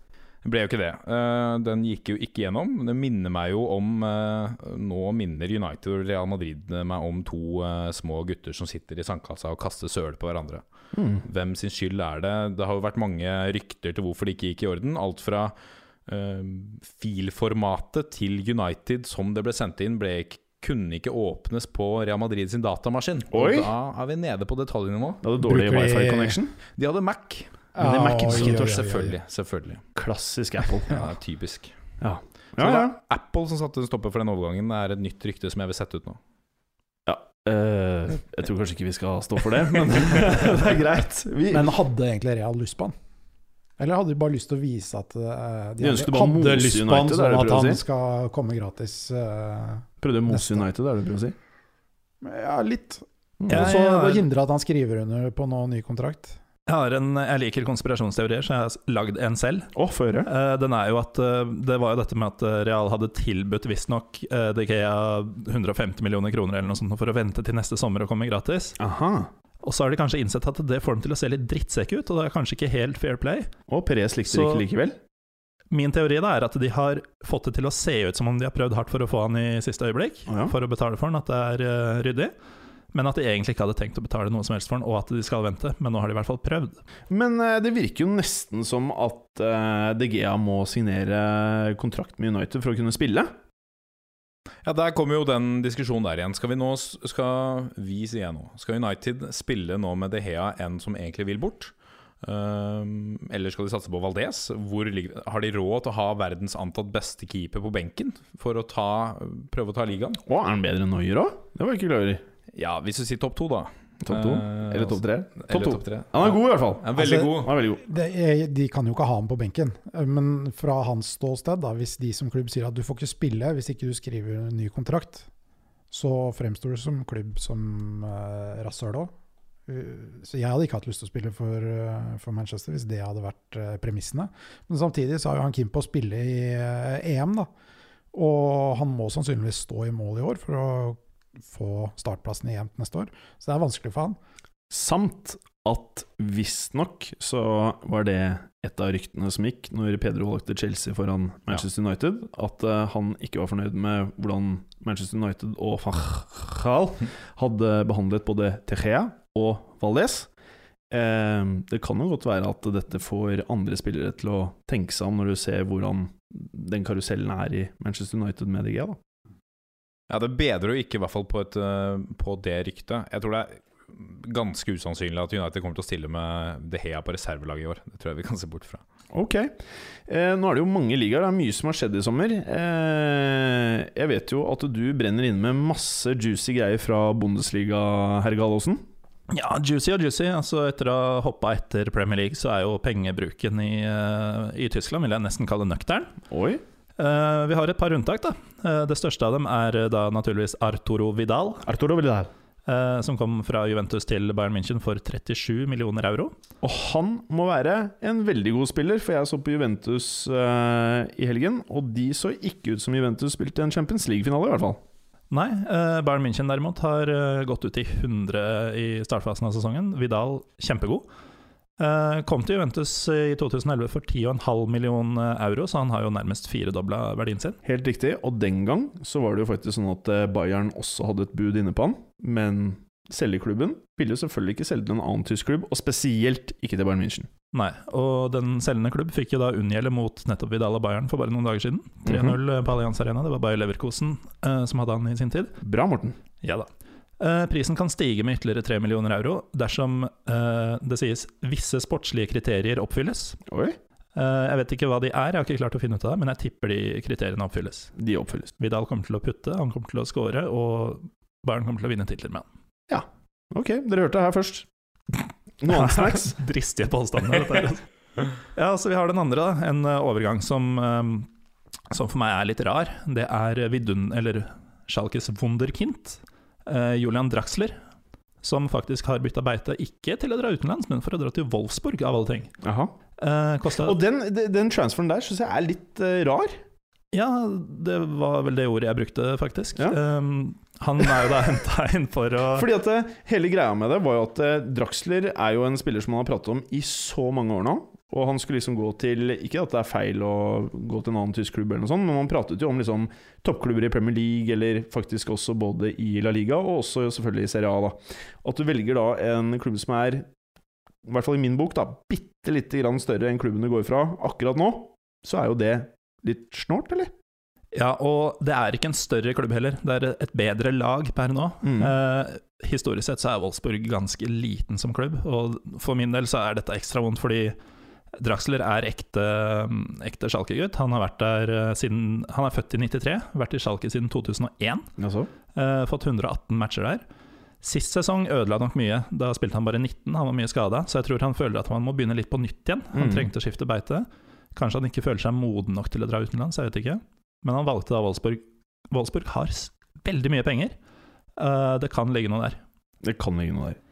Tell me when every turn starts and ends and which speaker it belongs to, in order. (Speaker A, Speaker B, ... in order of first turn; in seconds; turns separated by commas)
Speaker A: 0.4-10.6, Speaker B: 10.9-11.2, Speaker A: 11.2-15.5, Speaker A: 16.1-25.2, Speaker B: 23.3-23.7, Speaker B: 25.2-26.5, Speaker C: 25.4-26.4, Speaker A: 26.8-29.9, Speaker C: 27.7-29.1, Speaker B: 27.8-28.8, Speaker B: 29.9-31.0, Speaker A: 30.8-31.7, Speaker B: 32.0-33.0, Speaker A: 32.6-36.2, Speaker B: 37.0-41.7, Speaker C: 41.5-42.9, Speaker C: 43.8-50.6, Speaker B: 45.8-47.8, Speaker B: 50.0-51.3, Speaker C: 52.2-56.4, Speaker B: 53.4-53.8, Speaker D: 53.5-54.2, Speaker D: 56.7-59.7, Speaker B: 59.7-60.3, Speaker D: 60.2-68.8, Speaker B: 68.8-69.3, Speaker D: 69.6-73.5, Speaker B: 73.7-75.0, Speaker D: 74.3-74.6, Speaker D: 75.7-82.3, Speaker B: 80.3-80.5, Speaker D: 82.9-86.8, Speaker B: 87.1-93.3, Speaker A: 94.6-110.2, Speaker B: 110.2-112.2, Speaker A: 112.5-117.6, Speaker B: 114.0-117.8, Speaker C: 117.0-125.3, Speaker C: 125.9-129.1, Speaker C: 129.7-137.5, Speaker C: 138.1-144.2, Speaker B: 144.7-160.3, Speaker B: 160.9-169.0, Speaker A: 170.1-178.8, Speaker B: 179.1-188.8, Speaker D: 189.3-196.1, Speaker B: 196.3-196.6, Speaker D: 197.0-201.7, Speaker B: 201.6-202.3, Speaker D: 202.7-206.3, Speaker B: 206.6-214.8, Speaker D: 215.3-221.1, Speaker D: 221.8-227.6, Speaker B: 227.6-237.3, Speaker D: 237.5-245.5, Speaker B: 242.1-242.4, Speaker B: 245.6-246.2, Speaker D: 246.4-246.7, Speaker D: 247.2-253.4, Speaker B: 253.5-253.8, Speaker D: 254.1-257.9, Speaker B: 258.0-258.5, Speaker D: 258.6-262.4, Speaker B: 262.9-264.7, Speaker B: 265.6-266.4, Speaker D: 265.7-267.8, Speaker D: 268.5-271.3, Speaker D: 271.9-277.8, Speaker D: 278.4-282.5, Speaker B: 282.6-282.9, Speaker D: 283.2-284.0, Speaker B: 283.8-286.6, Speaker D: 287.1-292.7, Speaker B: 292.5-310.3, Speaker B: 311.0-317.1, Speaker D: 317.7-327.6, Speaker B: 321.6-321.9, Speaker D: 328.2-334.9, Speaker B: 335.0-335.3, Speaker D: 335.5-337.0, Speaker D: 337.6-350.7, Speaker B: 342.9-343.3, Speaker D: 351.4-352.6, Speaker B: 353.0-353.8